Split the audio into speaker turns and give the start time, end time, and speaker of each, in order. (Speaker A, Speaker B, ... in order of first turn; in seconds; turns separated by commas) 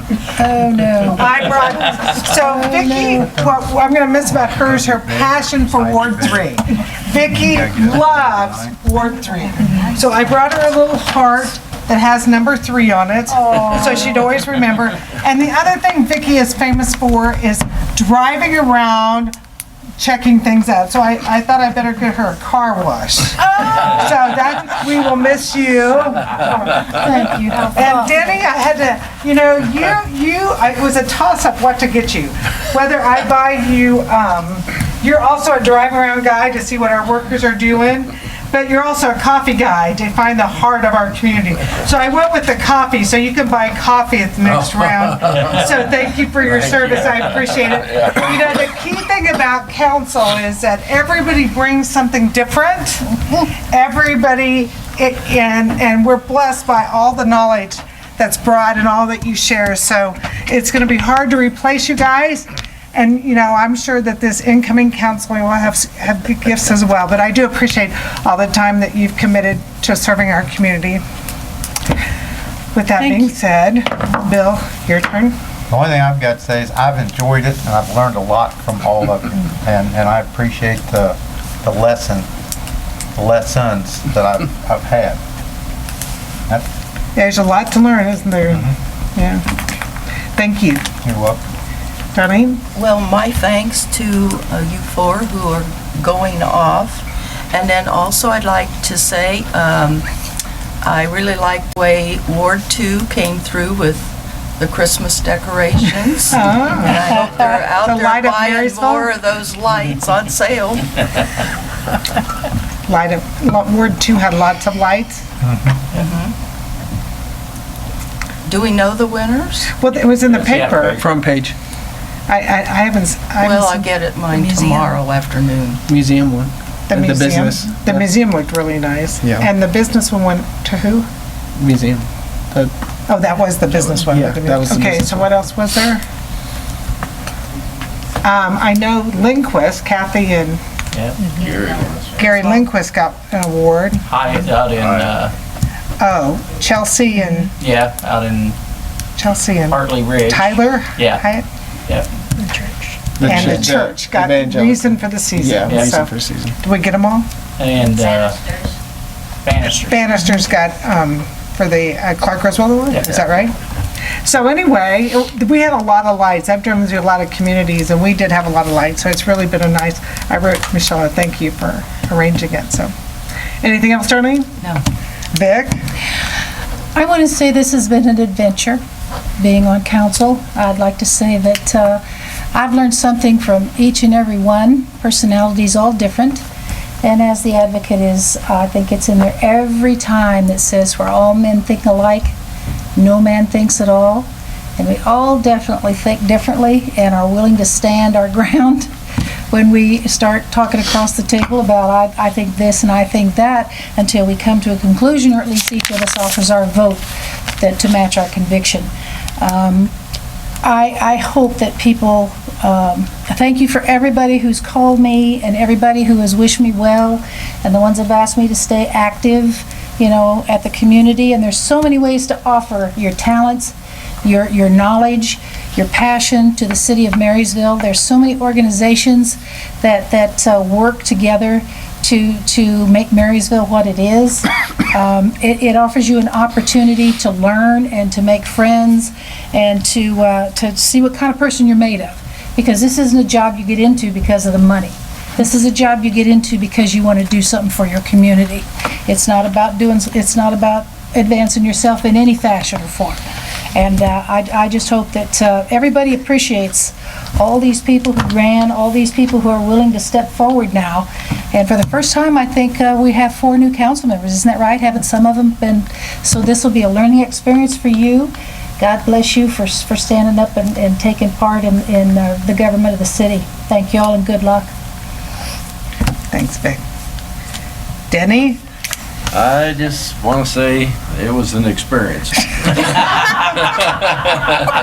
Speaker A: 0.3-1.4, Speaker B: 1.1-19.4, Speaker A: 2.3-3.4, Speaker C: 4.4-6.5, Speaker C: 7.3-8.8, Speaker A: 13.3-14.3, Speaker B: 20.0-26.9, Speaker A: 23.5-23.8, Speaker A: 26.4-28.4, Speaker B: 27.7-53.1, Speaker B: 53.7-71.0, Speaker B: 72.7-75.4, Speaker A: 73.0-73.3, Speaker C: 75.7-82.3, Speaker C: 83.2-85.2, Speaker B: 87.2-89.4, Speaker B: 90.4-90.9, Speaker C: 91.0-91.4, Speaker B: 92.2-92.6, Speaker D: 92.7-100.1, Speaker D: 100.8-111.1, Speaker B: 106.3-109.1, Speaker B: 112.9-115.2, Speaker D: 115.9-116.3, Speaker D: 118.5-119.7, Speaker B: 119.8-121.0, Speaker E: 120.2-121.0, Speaker F: 121.0-121.5, Speaker B: 122.3-123.9, Speaker D: 123.4-125.8, Speaker F: 125.9-128.1, Speaker B: 126.9-131.1, Speaker F: 131.6-132.7, Speaker B: 133.1-136.0, Speaker F: 134.1-135.3, Speaker B: 138.2-140.6, Speaker E: 140.9-141.2, Speaker G: 141.4-142.1, Speaker D: 141.4-142.5, Speaker B: 142.2-144.1, Speaker E: 144.1-145.3, Speaker G: 144.8-145.2, Speaker B: 146.0-147.5, Speaker E: 147.6-148.6, Speaker B: 149.2-151.4, Speaker E: 149.7-151.2, Speaker F: 153.2-156.6, Speaker B: 153.2-157.3, Speaker E: 155.7-156.0, Speaker E: 157.6-158.4, Speaker D: 157.8-158.8, Speaker E: 159.4-160.2, Speaker B: 159.8-163.6, Speaker E: 162.9-163.3, Speaker B: 164.2-172.9, Speaker B: 173.6-174.5, Speaker B: 175.3-175.8, Speaker A: 177.0-178.8, Speaker A: 179.4-182.0, Speaker A: 182.5-186.4, Speaker A: 187.0-192.3, Speaker A: 193.0-198.9, Speaker A: 199.5-209.9, Speaker A: 210.6-253.2, Speaker A: 253.7-274.7, Speaker B: 276.3-276.8, Speaker B: 278.1-278.6, Speaker G: 279.3-284.2